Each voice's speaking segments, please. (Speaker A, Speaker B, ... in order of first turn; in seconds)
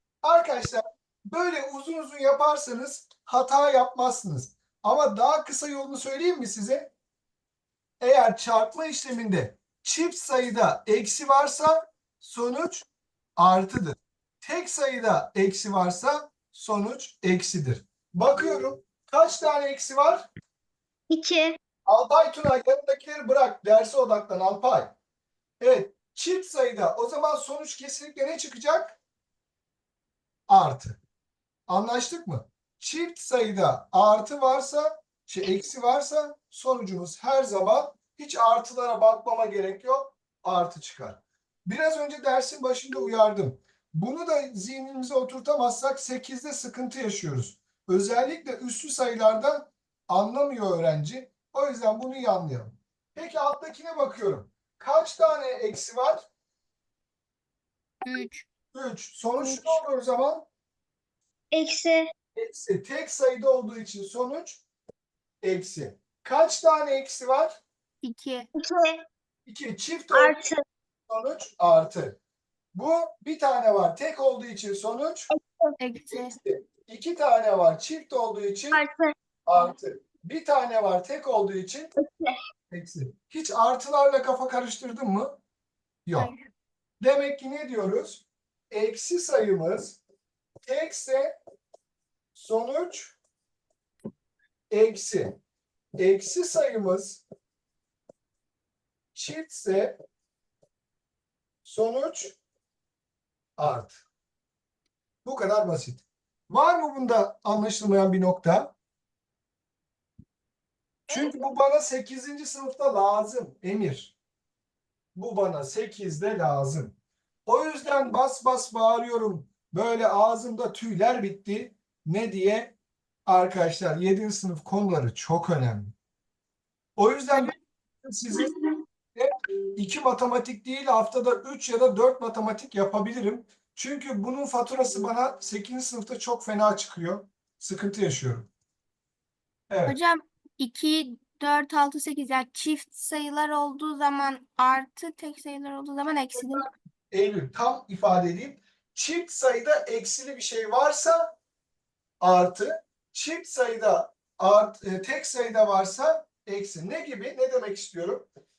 Speaker A: 0.2-6.9, 8.0-12.9, 13.4-20.3, 21.9-24.9, 25.6-29.0, 30.5-31.0, 31.7-56.2, 58.7-60.5, 62.4-64.6, 65.4-67.6, 69.5-70.4, 71.1-72.2, 72.7-75.3, 76.0-78.8, 79.5-81.9, 82.7-85.4, 86.1-86.3, 87.0-90.0, 90.7-91.4, 92.3-93.2, 94.7-95.4, 96.0-97.2, 99.2-100.0, 101.7-102.4, 103.6-104.0, 105.2-108.7, 111.1-114.2, 115.2-117.0, 117.5-122.8, 123.3-125.9, 127.0-128.5, 129.2-138.5, 139.7-140.0, 146.3-151.3, 152.2-158.3
Speaker B: 21.1-21.6, 61.5-62.1, 68.5-69.0, 70.1-70.6, 75.3-75.7, 78.7-79.1, 82.0-82.4
Speaker C: 58.0-58.5, 68.0-68.5, 75.8-76.4, 86.2-86.4, 139.9-146.7